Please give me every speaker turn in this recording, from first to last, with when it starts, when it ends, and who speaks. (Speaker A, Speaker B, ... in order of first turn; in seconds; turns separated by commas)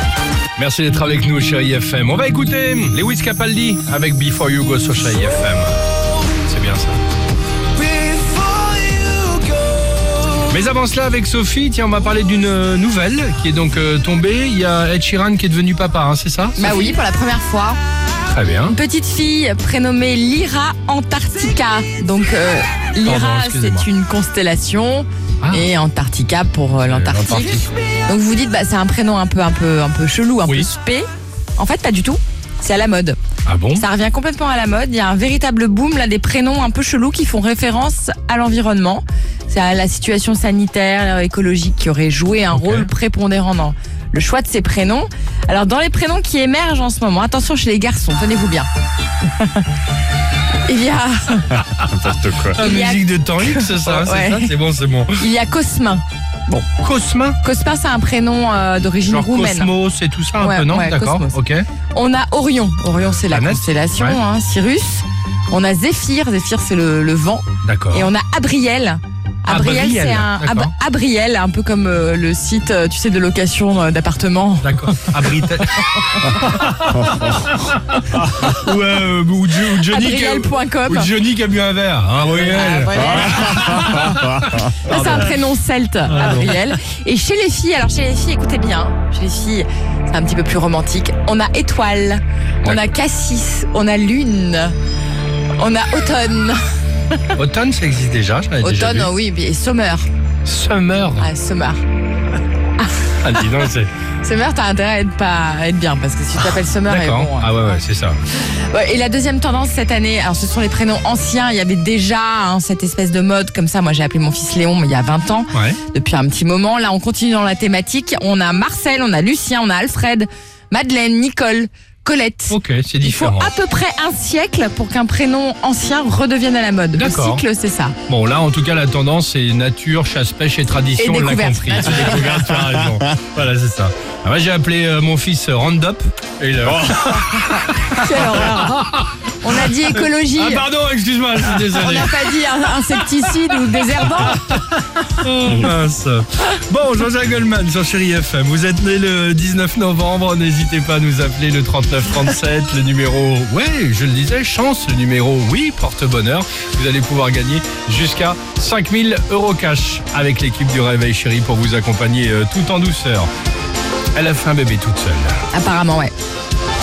Speaker A: 0.6-7.0, Speaker B: 7.8-10.3, Speaker A: 10.4-16.8, Speaker C: 16.6-17.8, Speaker A: 18.2-18.8, Speaker C: 18.7-33.2, Speaker A: 23.0-23.9, Speaker A: 25.4-25.7, Speaker A: 26.8-27.7, Speaker A: 33.5-33.8, Speaker C: 33.8-48.7, Speaker A: 42.5-42.9, Speaker C: 49.3-49.6, Speaker C: 50.6-51.6, Speaker B: 51.7-52.6, Speaker A: 52.5-55.3, Speaker C: 52.5-54.5, Speaker C: 55.2-56.7, Speaker A: 56.6-57.4, Speaker C: 57.4-59.7, Speaker A: 59.0-61.6, Speaker C: 60.4-61.4, Speaker C: 61.9-76.1, Speaker A: 63.2-64.2, Speaker A: 67.6-68.1, Speaker A: 69.5-70.7, Speaker A: 74.6-85.4, Speaker C: 79.8-81.1, Speaker C: 82.3-94.7, Speaker B: 83.1-84.7, Speaker A: 86.1-86.7, Speaker C: 95.5-97.3, Speaker A: 97.3-99.1, Speaker C: 98.6-100.1, Speaker A: 100.4-101.3, Speaker C: 101.2-101.8, Speaker C: 102.8-103.5, Speaker A: 103.2-103.9, Speaker C: 104.2-107.5, Speaker A: 106.9-108.2, Speaker C: 108.4-128.0, Speaker A: 115.5-115.8, Speaker A: 122.5-123.5, Speaker A: 127.0-127.4, Speaker A: 128.1-142.3, Speaker C: 131.0-132.4, Speaker C: 137.9-138.8, Speaker C: 139.4-140.6, Speaker C: 141.6-144.6, Speaker A: 144.1-163.3, Speaker A: 164.1-165.4, Speaker C: 165.5-166.1